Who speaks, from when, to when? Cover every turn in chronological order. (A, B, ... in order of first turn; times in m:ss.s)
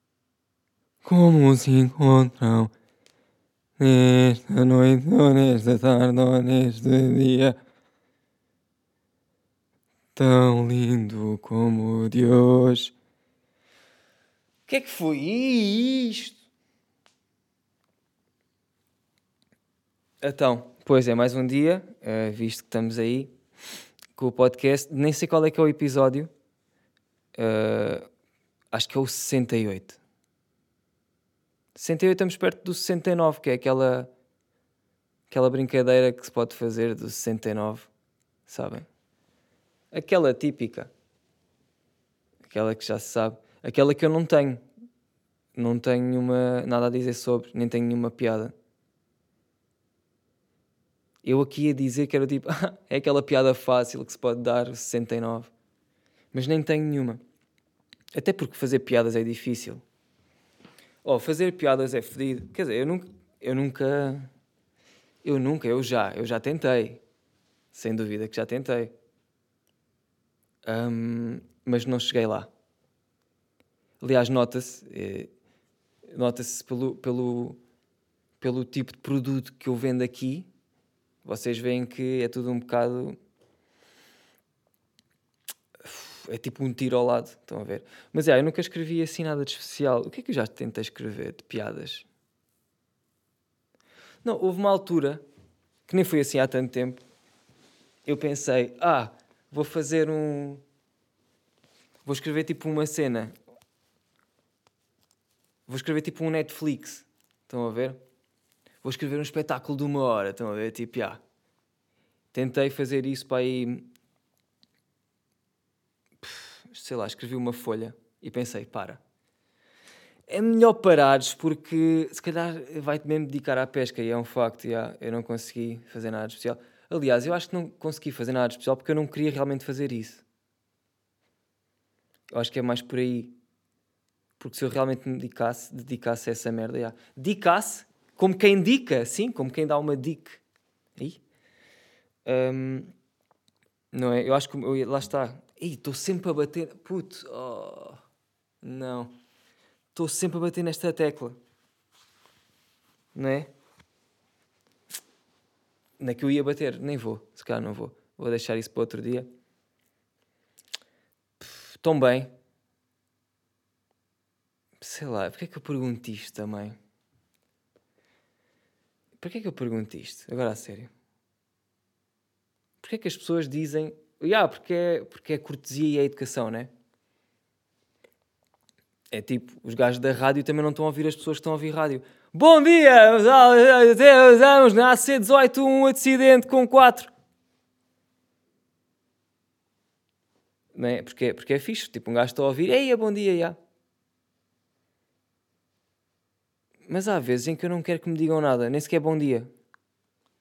0:01.0-0:02.7 A
0:03.8-0:07.6 A
0:10.2-0:12.9 A
0:14.7-0:16.4 A
0:20.2-0:23.3 A
0:24.1-0:26.3 A
0:27.3-0:28.1 A
0:28.7-0:30.0 A
0:31.7-0:34.1 A
0:35.3-0:37.9 A
0:38.5-0:38.9 A
0:39.9-0:40.9 A
0:42.4-0:44.6 A
0:45.5-0:48.5 A
0:51.2-0:55.5 A
0:56.3-0:57.2 A
0:58.1-0:59.8 A
1:01.0-1:04.3 A
1:05.2-1:07.0 A
1:07.7-1:08.9 A
1:10.6-1:12.5 A
1:14.0-1:15.3 A
1:16.1-1:17.6 A
1:18.4-1:20.5 A
1:21.2-1:23.2 A
1:25.8-1:32.1 A
1:34.2-1:35.2 A
1:35.9-1:37.0 A
1:38.0-1:40.6 A
1:42.0-1:43.3 A
1:45.7-1:48.0 A
1:48.8-1:51.2 A
1:52.3-1:53.9 A
1:56.2-1:59.0 A
2:00.3-2:10.2 A
2:12.3-2:13.3 A
2:14.4-2:20.4 A
2:22.2-2:22.9 A
2:23.9-2:28.0 A
2:28.6-2:29.1 A
2:29.9-2:31.4 A
2:33.1-2:33.5 A
2:36.0-2:39.3 A
2:41.4-2:42.3 A
2:44.8-2:46.8 A
2:49.2-2:50.9 A
2:52.8-2:56.7 A
2:59.1-3:07.1 A
3:10.7-3:13.6 A
3:16.9-3:19.5 A